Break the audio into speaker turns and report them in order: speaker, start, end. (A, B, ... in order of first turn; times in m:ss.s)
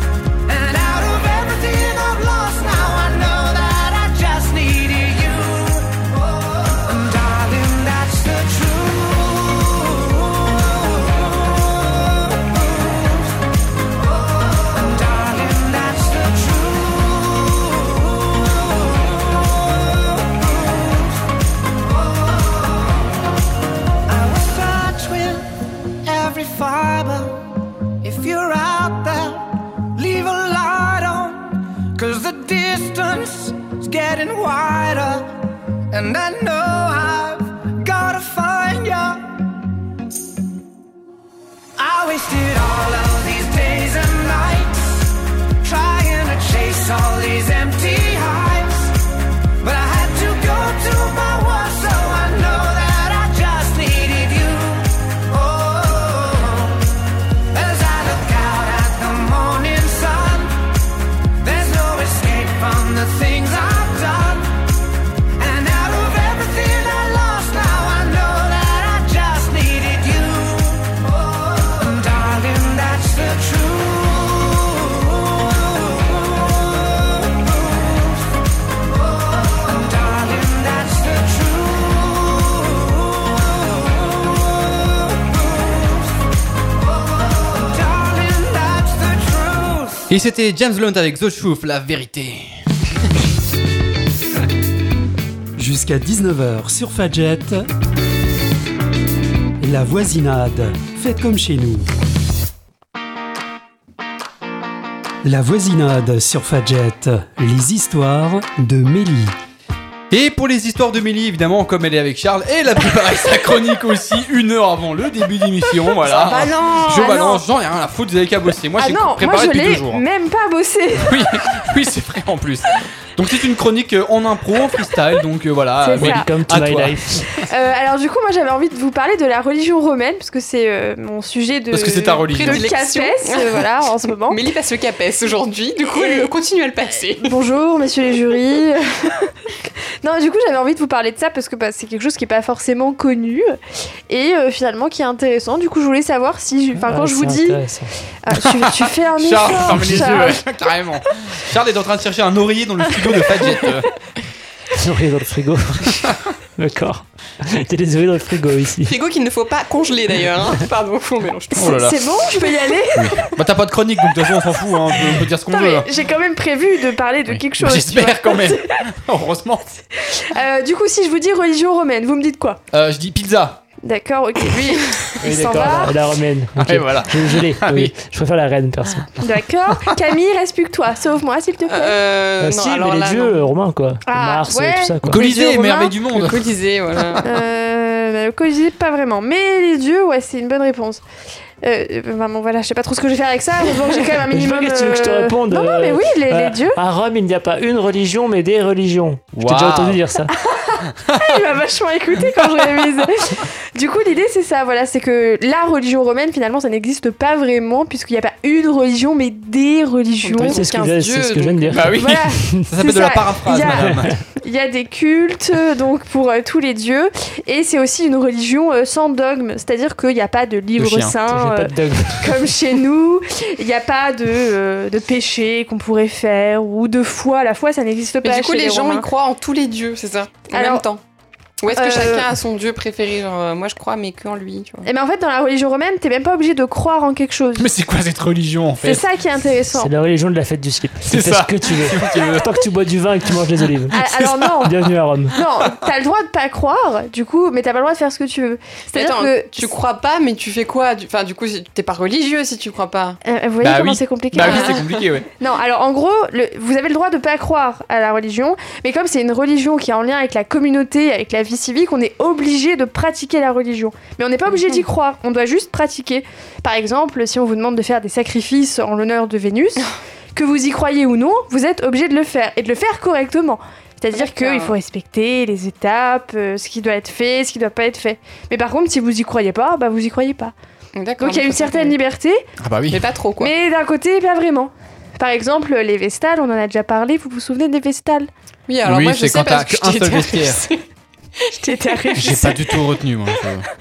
0:00.5-0:13.4 A
0:14.0-0:21.2 A
0:21.9-0:22.9 A
0:24.1-0:25.5 A
0:26.0-0:27.4 A
0:28.0-0:39.3 A
0:41.8-0:49.0 A
0:49.6-0:56.9 A
0:57.5-1:00.6 A
1:01.4-1:04.6 A
1:05.4-1:18.4 A
1:18.9-1:26.2 A
1:26.8-1:30.1 A
1:30.1-1:32.5 B
1:35.6-1:37.6 C
1:39.6-1:41.9 C
1:45.2-1:49.3 C
1:50.1-2:00.0 B
1:56.0-1:57.4 D
1:58.8-2:01.2 D
2:01.0-2:07.0 B
2:05.8-2:06.3 D
2:06.0-2:07.3 E
2:07.4-2:14.4 D
2:11.7-2:12.7 B
2:12.1-2:17.4 F
2:15.9-2:16.3 D
2:17.2-2:19.3 D
2:20.0-2:23.6 D
2:24.1-2:27.6 D
2:26.8-2:27.9 E
2:28.2-2:30.4 D
2:28.4-2:33.9 B
2:29.7-2:30.2 E
2:34.7-2:39.0 E
2:38.9-2:41.8 F
2:41.6-2:42.0 B
2:41.6-2:43.4 D
2:42.9-2:45.9 B
2:45.5-2:48.8 D
2:47.3-2:49.6 B
2:49.9-2:52.6 D
2:52.7-2:53.6 B
2:53.8-2:56.0 D
2:55.2-2:59.1 E
2:56.6-2:57.9 B
2:59.2-3:02.0 D
3:01.7-3:03.4 F
3:02.4-3:05.2 E
3:04.0-3:06.0 D
3:05.0-3:06.5 B
3:06.1-3:07.3 F
3:07.2-3:11.0 D
3:11.6-3:16.8 D
3:14.3-3:20.3 E
3:19.4-3:20.0 B
3:20.3-3:30.7 D
3:21.0-3:21.4 B
3:22.3-3:23.1 B
3:30.2-3:32.0 F
3:30.4-3:32.7 E
3:31.7-3:34.1 B
3:31.9-3:49.0 D
3:33.7-3:34.1 E
3:40.8-3:41.2 B
3:41.3-3:42.4 E
3:48.2-3:51.0 F
3:50.5-3:50.8 D
3:51.6-3:54.9 F
3:51.7-3:52.3 D
3:54.8-3:57.7 D
3:57.6-3:59.0 B
3:58.8-3:59.9 D
3:59.7-4:04.0 E
4:01.0-4:02.5 B
4:03.9-4:04.7 B
4:03.9-4:04.8 D
4:04.6-4:05.4 E
4:05.3-4:09.7 D
4:05.4-4:05.8 B
4:08.9-4:13.2 F
4:13.2-4:14.9 D
4:13.6-4:15.3 B
4:14.4-4:15.0 F
4:15.4-4:40.5 D
4:34.1-4:34.7 F
4:41.0-4:42.0 F
4:41.2-4:42.4 D
4:42.6-4:43.0 B
4:42.9-4:43.5 F
4:43.4-4:48.3 D
4:48.7-4:50.8 F
4:48.8-4:50.7 B
4:51.4-4:52.5 F
4:51.6-4:52.7 D
4:52.2-4:53.7 B